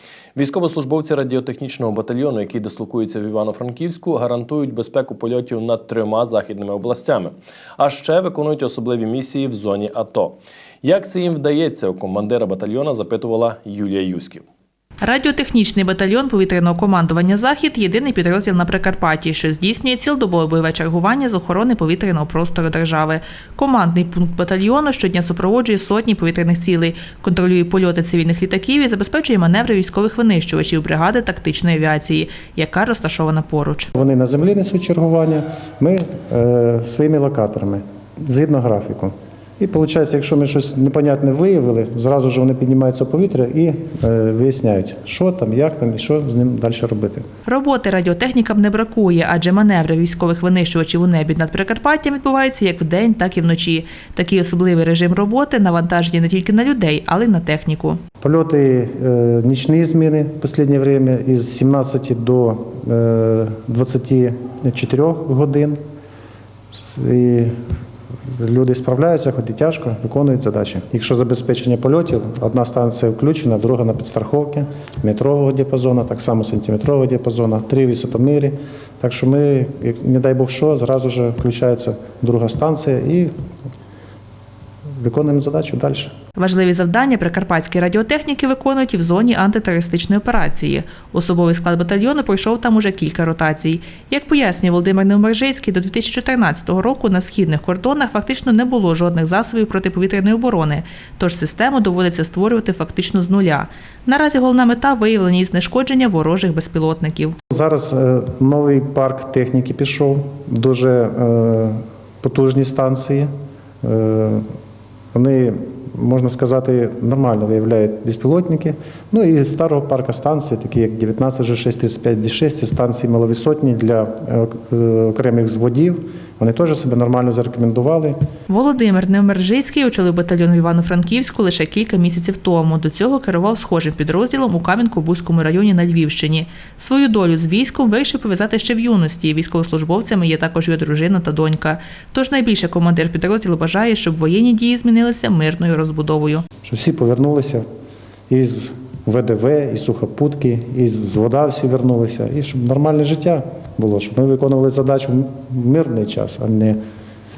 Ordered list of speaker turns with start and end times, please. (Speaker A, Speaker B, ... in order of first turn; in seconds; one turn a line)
Speaker A: 0.3-14.4
Speaker B: 15.0-33.9
Speaker C: 33.9-47.2
Speaker B: 47.5-58.0
Speaker C: 58.2-65.8
Speaker C: 66.7-67.5
Speaker C: 68.3-83.3
Speaker C: 85.0-86.1
Speaker B: 86.3-107.3
Speaker C: 107.5-113.3
Speaker C: 113.8-114.4
Speaker C: 115.1-128.2
Speaker B: 128.5-146.4
Speaker C: 146.6-147.6
Speaker C: 148.3-156.8